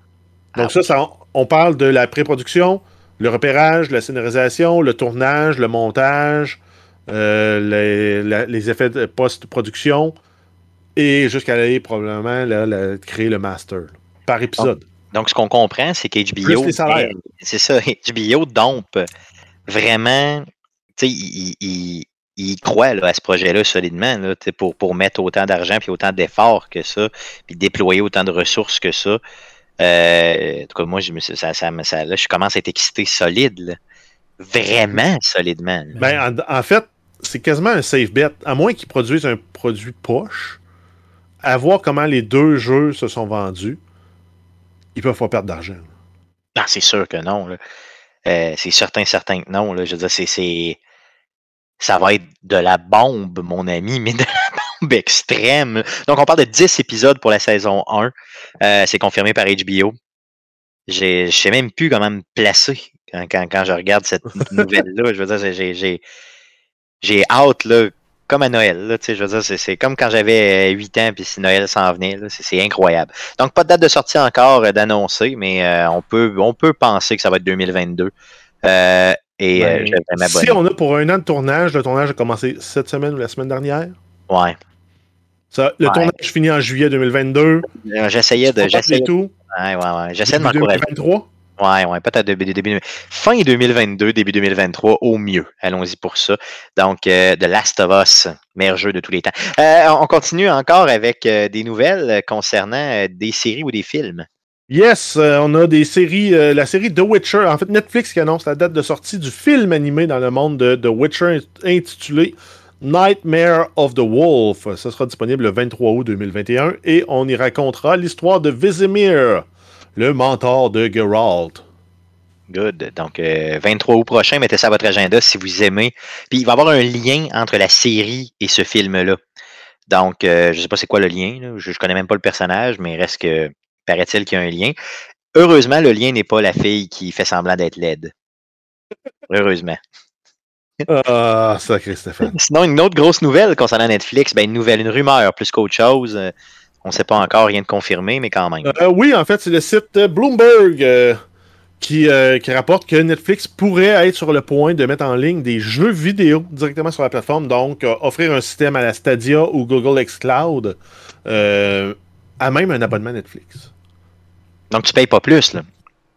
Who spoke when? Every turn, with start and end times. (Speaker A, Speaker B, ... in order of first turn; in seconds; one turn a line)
Speaker A: 0.6-0.8
Speaker B: 0.6-10.2
Speaker B: 11.0-14.8
Speaker A: 14.6-19.1
Speaker B: 16.4-17.1
Speaker A: 19.7-20.5
Speaker A: 21.0-29.2
Speaker A: 29.8-33.8
Speaker A: 34.4-36.1
Speaker B: 36.0-40.6
Speaker B: 41.4-43.8
Speaker B: 45.0-45.9
Speaker A: 46.6-47.6
Speaker A: 48.3-50.8
Speaker A: 51.8-60.0
Speaker A: 60.9-66.0
Speaker A: 67.0-78.1
Speaker A: 78.6-80.6
Speaker B: 79.6-84.0
Speaker A: 84.3-84.6
Speaker B: 85.5-87.7
Speaker A: 85.8-86.1
Speaker A: 87.8-90.8
Speaker B: 88.4-89.3
Speaker B: 90.3-91.3
Speaker A: 91.6-104.3
Speaker B: 104.7-121.6
Speaker A: 122.5-129.2
Speaker A: 129.9-134.8
Speaker A: 135.3-138.1
Speaker A: 139.3-139.8
Speaker B: 140.9-142.3
Speaker A: 142.3-146.3
Speaker A: 146.8-148.8
Speaker B: 148.6-151.2
Speaker B: 151.8-163.7
Speaker A: 164.7-165.7